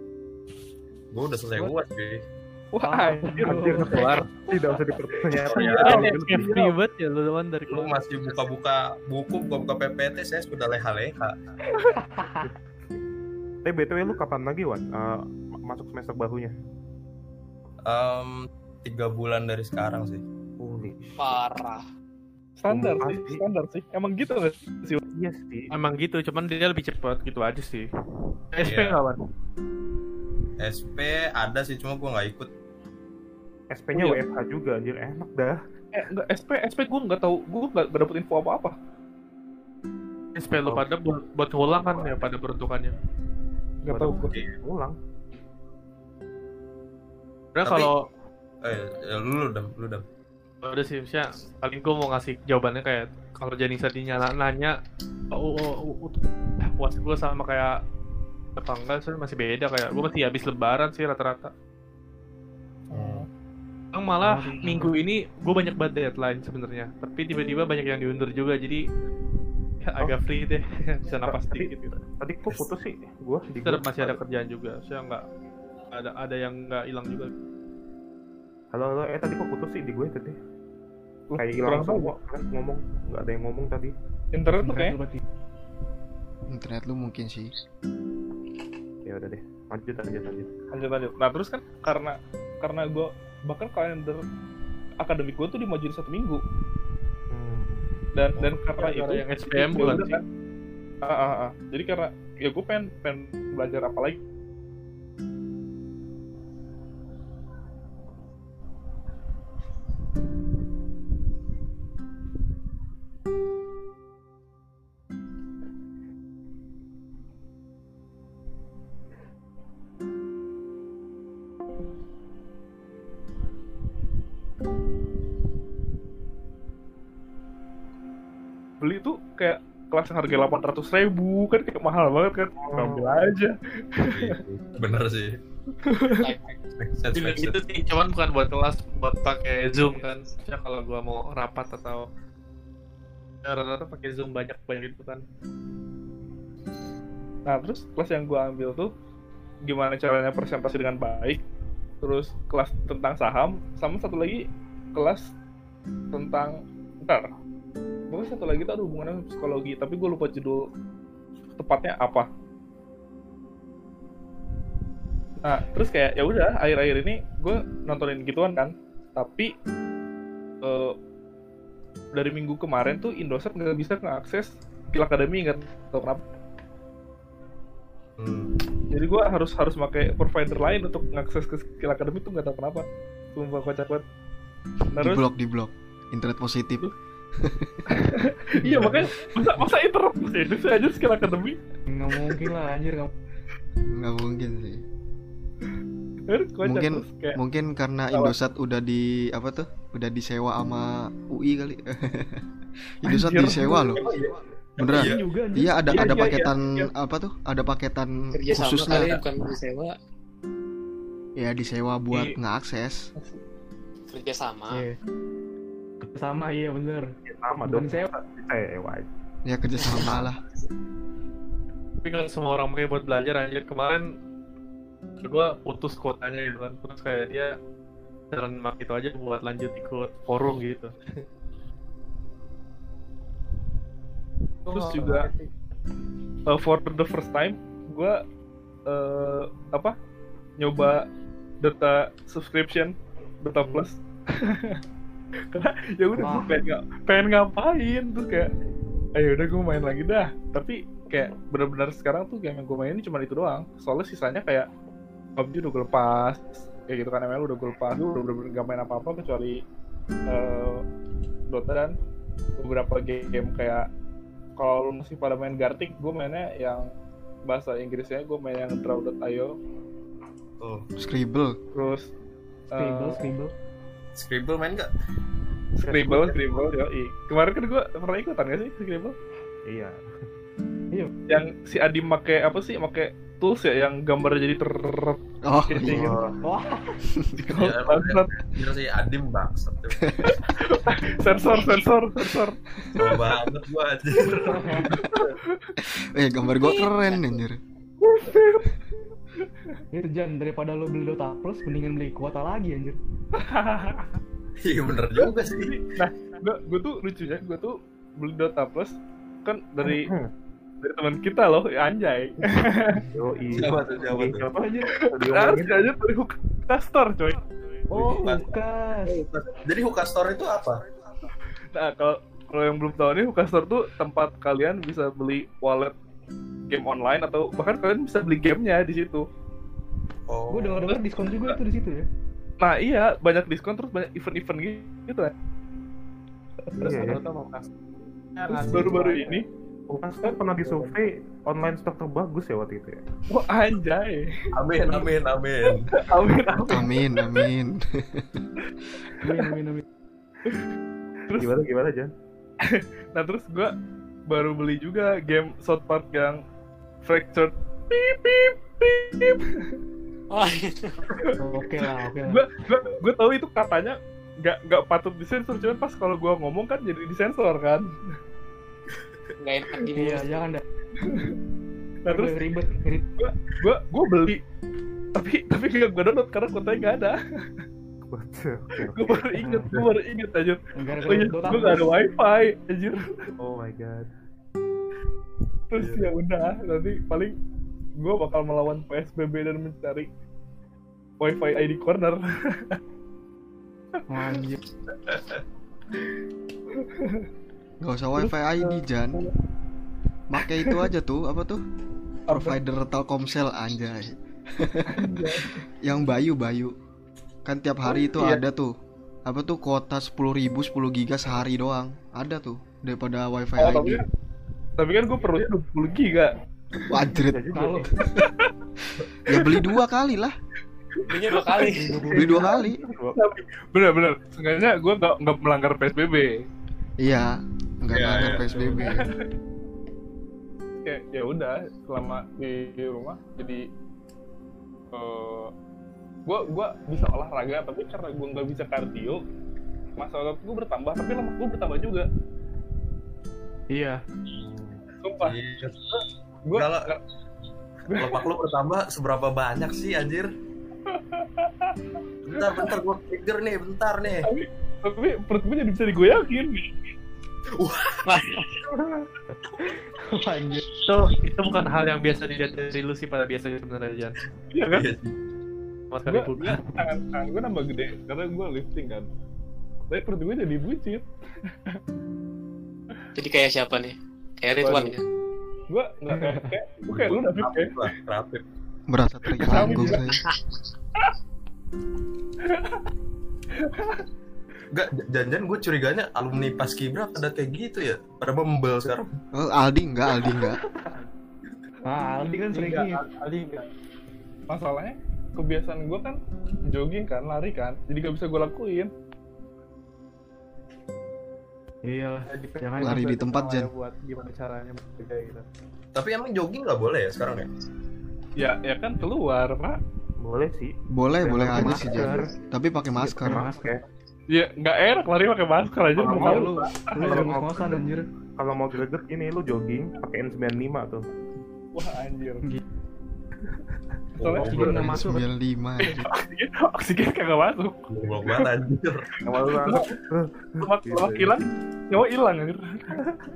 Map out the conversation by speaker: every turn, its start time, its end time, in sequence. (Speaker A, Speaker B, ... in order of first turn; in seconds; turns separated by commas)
Speaker A: 1.1-2.2, Speaker B: 2.7-4.2, Speaker C: 2.8-4.0, Speaker D: 3.5-4.3, Speaker E: 4.0-6.6, Speaker A: 5.3-6.1, Speaker D: 5.7-8.0, Speaker B: 6.1-6.5, Speaker A: 7.7-11.4, Speaker C: 11.9-12.4, Speaker E: 13.7-16.5, Speaker A: 17.9-20.2, Speaker E: 20.6-21.4, Speaker F: 21.2-21.9, Speaker B: 22.6-25.0, Speaker E: 22.7-23.4, Speaker E: 25.1-25.7, Speaker D: 25.7-27.9, Speaker D: 28.5-29.2, Speaker A: 28.6-29.0, Speaker A: 30.6-32.5, Speaker E: 33.7-35.6, Speaker B: 35.9-38.7, Speaker D: 40.4-43.0, Speaker E: 40.6-40.9, Speaker E: 41.8-42.2, Speaker B: 43.8-44.3, Speaker E: 43.9-45.0, Speaker D: 47.5-48.1, Speaker A: 47.6-47.9, Speaker A: 48.6-50.0, Speaker D: 50.6-54.7, Speaker D: 55.3-57.8, Speaker D: 58.6-61.5, Speaker B: 62.9-63.3, Speaker A: 62.9-63.2, Speaker D: 63.9-68.8, Speaker C: 64.2-65.0, Speaker D: 69.8-71.9, Speaker E: 71.1-74.2, Speaker D: 73.6-75.2, Speaker D: 75.9-77.3, Speaker E: 78.7-80.4, Speaker B: 81.3-82.1, Speaker E: 81.4-83.9, Speaker B: 84.3-85.0, Speaker C: 84.6-85.2, Speaker G: 86.5-87.5, Speaker E: 89.0-90.5, Speaker B: 90.7-94.2, Speaker B: 95.0-96.4, Speaker E: 97.3-97.9, Speaker B: 98.1-100.2, Speaker D: 98.8-100.2, Speaker B: 101.0-104.2, Speaker B: 128.8-134.4, Speaker E: 132.6-133.3, Speaker A: 134.0-135.4, Speaker B: 135.8-136.3, Speaker A: 136.8-137.6, Speaker D: 137.1-142.1, Speaker D: 143.4-145.2, Speaker B: 147.5-148.9, Speaker B: 149.7-151.4, Speaker B: 152.0-154.4, Speaker B: 154.9-155.3, Speaker B: 156.1-157.3, Speaker B: 158.1-160.7, Speaker B: 161.6-162.3, Speaker B: 165.4-169.5, Speaker B: 170.6-170.9, Speaker B: 172.1-176.2, Speaker A: 178.2-178.6, Speaker B: 178.9-184.1, Speaker B: 184.9-185.2, Speaker G: 185.0-187.8, Speaker B: 187.9-191.6, Speaker G: 188.7-189.1, Speaker C: 191.9-193.1, Speaker G: 193.9-194.8, Speaker B: 196.3-197.4, Speaker G: 196.6-202.4, Speaker G: 203.0-204.1, Speaker B: 203.1-204.0, Speaker A: 203.9-205.2, Speaker G: 204.8-209.2, Speaker C: 204.8-206.2, Speaker B: 205.9-206.9, Speaker F: 208.3-209.9, Speaker G: 211.4-213.1, Speaker F: 214.1-214.9, Speaker C: 216.0-217.1, Speaker E: 217.3-219.1, Speaker C: 217.7-218.1, Speaker G: 219.4-220.4, Speaker D: 222.0-224.1, Speaker D: 225.2-227.5, Speaker D: 228.3-230.9, Speaker D: 234.7-235.5, Speaker B: 234.7-235.3, Speaker B: 236.5-238.2, Speaker B: 238.9-239.9, Speaker B: 240.6-241.1, Speaker B: 241.6-244.8, Speaker B: 245.5-248.5, Speaker C: 246.2-246.5, Speaker B: 249.2-254.7, Speaker B: 255.4-259.6, Speaker B: 260.3-260.8, Speaker B: 261.5-261.9, Speaker B: 262.6-263.9, Speaker B: 264.6-266.9, Speaker B: 267.5-269.6, Speaker A: 270.6-270.9, Speaker G: 271.0-271.6, Speaker B: 271.7-272.1, Speaker B: 272.7-273.3, Speaker C: 272.8-273.5, Speaker A: 274.2-274.9, Speaker B: 275.8-279.2, Speaker E: 275.9-276.5, Speaker E: 279.7-280.0, Speaker B: 281.3-286.1, Speaker G: 285.5-286.2, Speaker A: 285.9-286.2, Speaker C: 286.4-287.0, Speaker G: 287.2-287.6, Speaker B: 287.5-288.3, Speaker A: 287.5-290.0, Speaker G: 290.0-290.3, Speaker B: 290.3-292.6, Speaker A: 293.0-295.3, Speaker C: 294.5-294.9, Speaker B: 295.0-295.7, Speaker G: 295.8-297.6, Speaker B: 298.0-298.8, Speaker B: 299.4-299.8, Speaker C: 299.9-303.0, Speaker B: 303.4-304.1, Speaker A: 304.6-305.8, Speaker B: 305.2-308.9, Speaker B: 309.4-310.1, Speaker E: 309.8-310.3, Speaker B: 310.8-313.0, Speaker E: 313.1-316.0, Speaker A: 313.5-314.4, Speaker C: 314.6-314.9, Speaker B: 315.0-317.4, Speaker C: 317.9-319.2, Speaker A: 317.9-318.5, Speaker A: 319.1-320.9, Speaker B: 321.7-325.9, Speaker B: 326.7-329.3, Speaker A: 330.3-331.6, Speaker C: 330.5-332.1, Speaker B: 332.6-335.3, Speaker E: 336.8-337.2, Speaker D: 336.8-337.7, Speaker D: 338.4-339.4, Speaker B: 338.6-339.5, Speaker E: 339.9-343.0, Speaker B: 340.3-340.9, Speaker B: 343.3-345.1, Speaker A: 344.6-345.9, Speaker B: 345.7-347.4, Speaker G: 346.6-348.5, Speaker B: 349.1-349.4, Speaker C: 349.2-349.9, Speaker B: 351.3-351.6, Speaker E: 351.3-352.1, Speaker B: 352.6-353.8, Speaker B: 354.3-356.4, Speaker B: 357.0-359.8, Speaker F: 360.3-361.3, Speaker C: 361.4-362.4, Speaker B: 362.2-367.9, Speaker F: 369.4-370.3, Speaker C: 369.9-370.6, Speaker B: 371.0-371.4, Speaker B: 372.1-372.4, Speaker C: 372.1-373.1, Speaker B: 373.2-374.4, Speaker B: 375.2-377.2, Speaker E: 378.1-379.4, Speaker B: 378.9-383.3, Speaker C: 379.4-379.7, Speaker C: 380.8-381.9, Speaker E: 383.4-384.1, Speaker B: 385.7-387.3, Speaker A: 385.8-386.1, Speaker B: 388.0-390.1, Speaker B: 391.2-392.8, Speaker C: 394.1-394.6, Speaker A: 395.1-395.4, Speaker B: 396.7-397.3, Speaker G: 397.8-399.2, Speaker B: 398.2-399.3, Speaker G: 400.3-401.6, Speaker B: 402.3-402.6, Speaker G: 402.3-406.7, Speaker B: 404.9-405.6, Speaker G: 407.5-408.7, Speaker B: 407.9-408.4, Speaker G: 409.3-414.0, Speaker B: 413.6-414.1, Speaker B: 414.8-416.3, Speaker G: 416.9-417.5, Speaker E: 417.1-417.9, Speaker C: 417.5-417.9, Speaker B: 418.2-418.5, Speaker G: 419.3-420.4, Speaker B: 421.1-422.6, Speaker F: 421.1-422.0, Speaker C: 421.7-422.5, Speaker G: 422.1-422.8, Speaker E: 422.2-423.2, Speaker B: 423.1-426.4, Speaker G: 427.0-429.1, Speaker A: 427.9-428.8, Speaker C: 428.1-428.8, Speaker B: 428.6-429.3, Speaker B: 430.8-433.6, Speaker B: 434.9-435.5, Speaker B: 436.3-439.2, Speaker B: 440.0-442.1, Speaker C: 443.7-444.0, Speaker E: 444.3-444.8, Speaker B: 445.0-445.4, Speaker A: 445.2-445.8, Speaker B: 445.9-447.0, Speaker A: 446.5-446.9, Speaker A: 447.8-450.3, Speaker B: 447.9-448.3, Speaker B: 450.9-451.8, Speaker A: 452.2-454.3, Speaker B: 452.4-452.7, Speaker B: 454.2-456.7, Speaker A: 457.6-458.6, Speaker B: 458.3-459.1, Speaker C: 459.7-460.7, Speaker D: 460.9-464.2, Speaker B: 464.5-464.9, Speaker A: 464.7-465.2, Speaker D: 465.9-466.6, Speaker B: 466.1-469.1, Speaker B: 469.9-471.8, Speaker F: 473.1-475.0, Speaker B: 474.6-475.0, Speaker B: 475.7-477.9, Speaker C: 476.1-476.5, Speaker A: 476.9-478.4, Speaker G: 478.9-480.2, Speaker B: 479.3-480.1, Speaker B: 482.4-482.9, Speaker B: 483.5-484.0, Speaker A: 484.7-489.1, Speaker G: 489.3-490.6, Speaker C: 491.9-493.0, Speaker D: 492.5-493.7, Speaker B: 494.5-496.2, Speaker B: 496.7-498.9, Speaker C: 501.9-503.0, Speaker D: 502.3-505.4, Speaker G: 502.8-503.7, Speaker A: 505.9-507.5, Speaker B: 508.4-509.8, Speaker E: 510.2-512.3, Speaker G: 510.9-513.5, Speaker C: 511.4-512.3, Speaker C: 513.0-513.7, Speaker E: 513.2-513.8, Speaker B: 514.3-517.4, Speaker E: 516.0-517.8, Speaker C: 516.1-518.0, Speaker E: 518.4-521.0, Speaker B: 521.7-522.5, Speaker B: 524.2-524.5, Speaker A: 524.2-524.9, Speaker C: 524.4-525.2, Speaker G: 524.5-526.1, Speaker B: 525.9-528.5, Speaker A: 527.9-529.1, Speaker B: 529.1-530.0, Speaker E: 529.3-531.4, Speaker B: 530.6-533.3